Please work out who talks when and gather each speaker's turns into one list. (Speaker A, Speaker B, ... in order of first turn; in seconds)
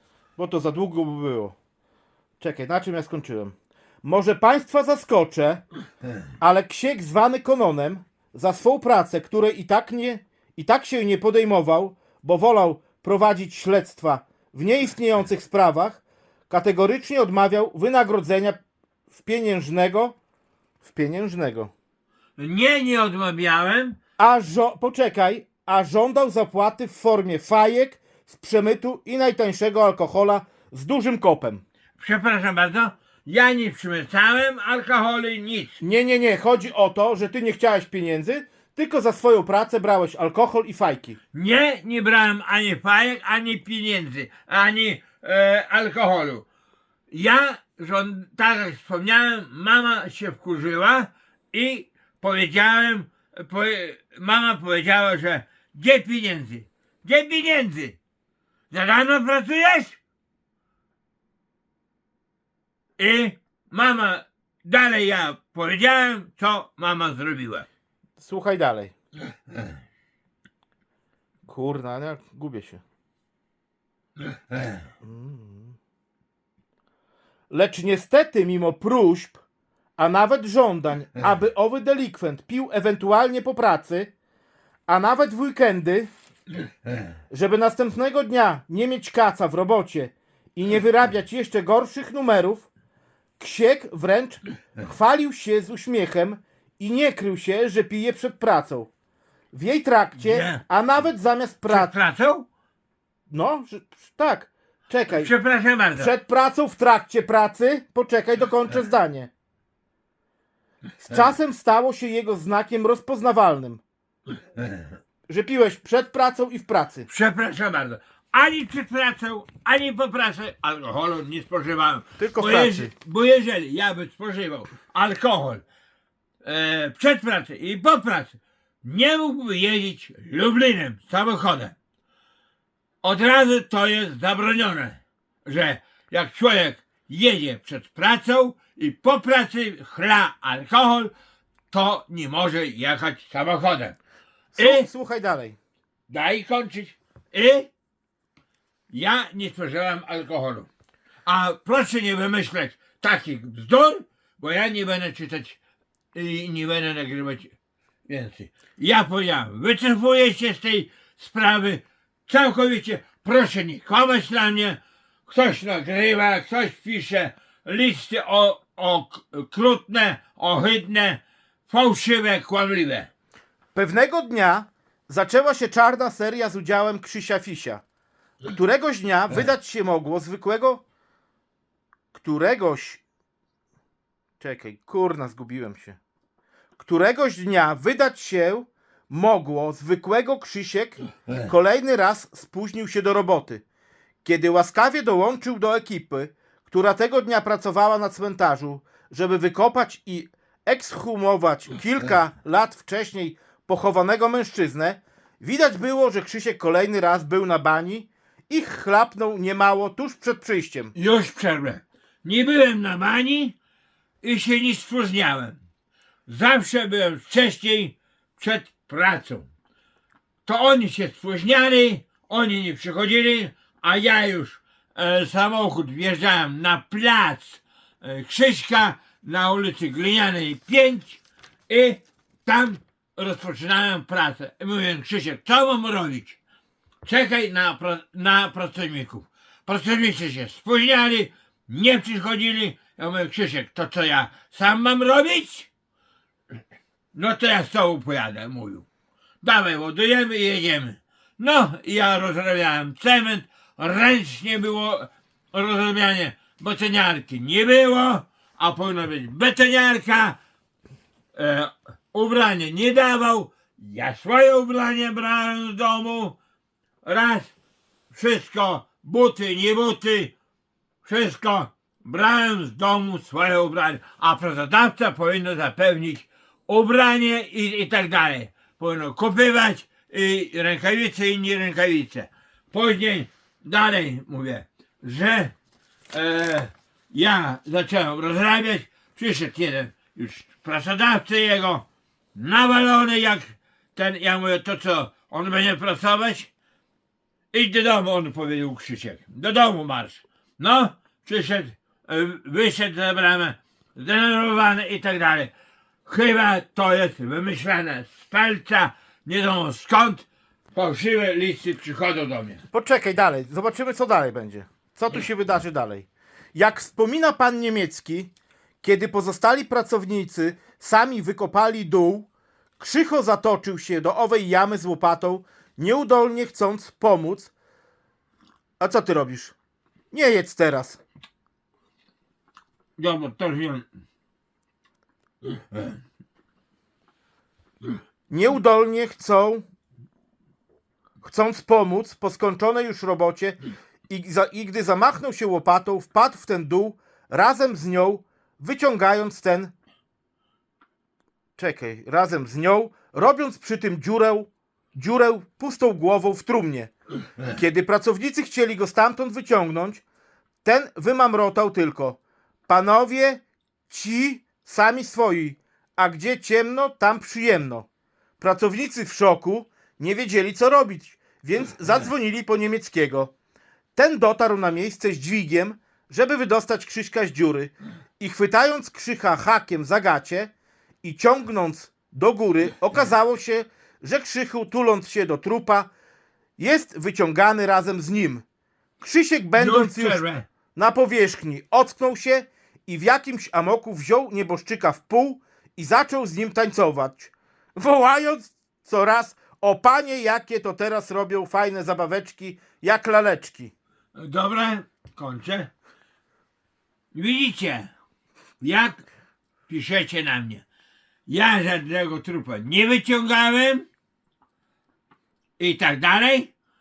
Speaker A: 0.4-1.6, 2.4-5.6, 6.4-18.6, 19.1-20.2, 20.8-21.7, 24.2-31.6, 35.8-41.2, 68.2-68.9, 71.5-72.8, 75.0-75.7, 77.5-79.4, 80.0-84.1, 84.9-86.1, 87.3-92.7, 93.4-98.9, 99.5-101.9, 103.3-105.3, 106.0-109.3, 111.0-113.8, 115.3-117.1, 122.2-122.9, 144.6-145.6, 173.8-177.8, 178.5-180.8, 182.1-183.0, 184.4-186.0, 186.8-193.6, 194.2-210.9, 312.7-318.3, 318.8-327.5, 328.8-329.6, 330.1-331.0, 338.3-339.6, 341.2-343.6, 344.1-349.7, 351.6-356.9, 357.4-360.0, 360.6-367.9, 368.4-373.3, 374.0-380.5, 381.0-385.9, 386.6-388.4, 389.0-390.2, 390.8-403.7
Speaker B: 22.4-24.0, 32.0-35.8, 41.3-46.5, 47.1-58.0, 58.7-60.0, 63.0-67.7, 100.2-100.6, 101.7-102.5, 105.1-106.1, 117.1-125.6, 126.4-131.8, 133.0-141.1, 141.7-144.0, 144.6-144.9, 146.1-147.7, 148.9-150.7, 151.3-155.6, 156.1-157.5, 158.1-173.1, 210.9-213.6, 214.2-215.6, 216.3-219.5, 220.5-236.4, 237.1-245.7, 247.1-248.8, 249.4-260.4, 261.4-266.4, 267.0-267.5, 268.1-270.3, 271.1-285.5, 286.1-296.5, 297.5-305.5, 306.1-312.6, 333.0-333.9, 389.6-390.5, 404.1-405.7, 407.1-407.9, 408.6-409.1, 409.7-410.6, 411.3-413.9, 415.6-416.5